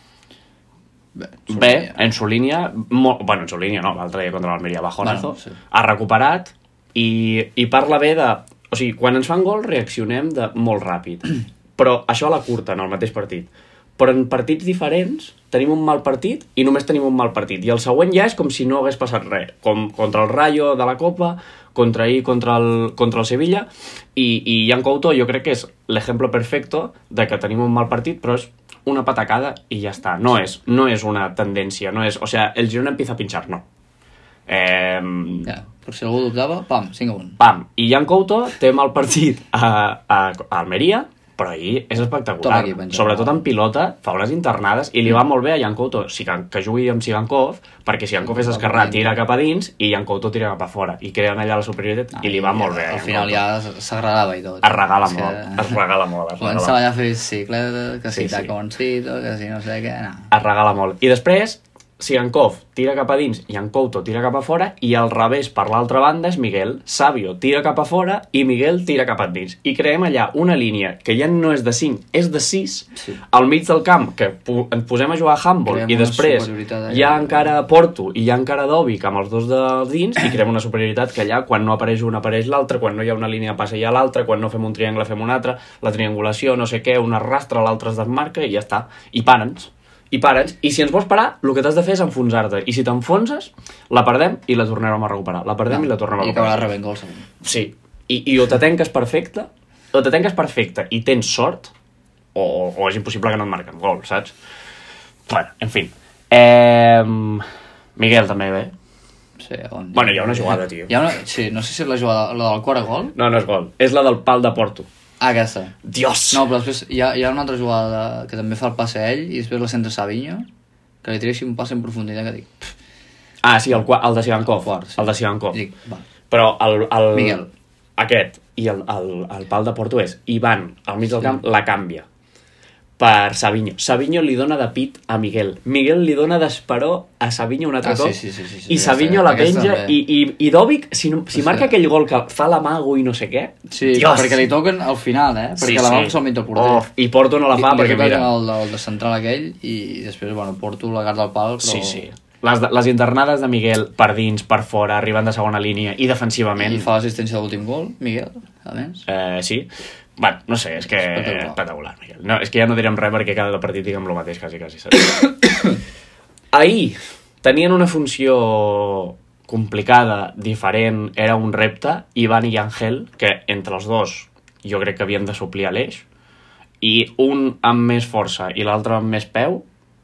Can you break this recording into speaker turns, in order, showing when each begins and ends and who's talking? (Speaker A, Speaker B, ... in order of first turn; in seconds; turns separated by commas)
Speaker A: 1.2-2.0, Speaker B: 1.5-33.6, Speaker A: 5.0-5.6, Speaker B: 34.5-35.5, Speaker A: 35.5-37.4, Speaker B: 37.4-53.4, Speaker A: 42.4-43.4, Speaker A: 48.2-49.2, Speaker A: 52.1-55.8, Speaker B: 54.6-56.8, Speaker A: 56.4-60.3, Speaker B: 58.1-58.5, Speaker B: 60.3-96.7, Speaker A: 73.0-73.2, Speaker A: 75.7-77.5, Speaker A: 95.7-97.4, Speaker B: 97.4-101.7, Speaker B: 102.3-104.3, Speaker B: 105.3-108.7, Speaker A: 109.4-113.2, Speaker B: 109.9-110.9, Speaker B: 113.2-114.9, Speaker A: 115.2-115.8, Speaker B: 115.8-116.5, Speaker A: 116.3-120.5, Speaker A: 121.0-122.7, Speaker B: 123.4-125.6, Speaker A: 124.4-126.1, Speaker B: 126.3-127.5, Speaker A: 127.1-127.5, Speaker B: 128.0-132.1, Speaker B: 133.0-138.2, Speaker A: 137.8-140.0, Speaker B: 138.7-144.5, Speaker A: 141.3-141.7, Speaker A: 143.7-146.9, Speaker B: 145.6-148.3, Speaker A: 147.5-152.1, Speaker B: 151.6-156.9, Speaker A: 156.6-159.1, Speaker B: 159.1-165.3, Speaker A: 160.9-161.6, Speaker B: 166.5-176.1, Speaker B: 176.8-179.6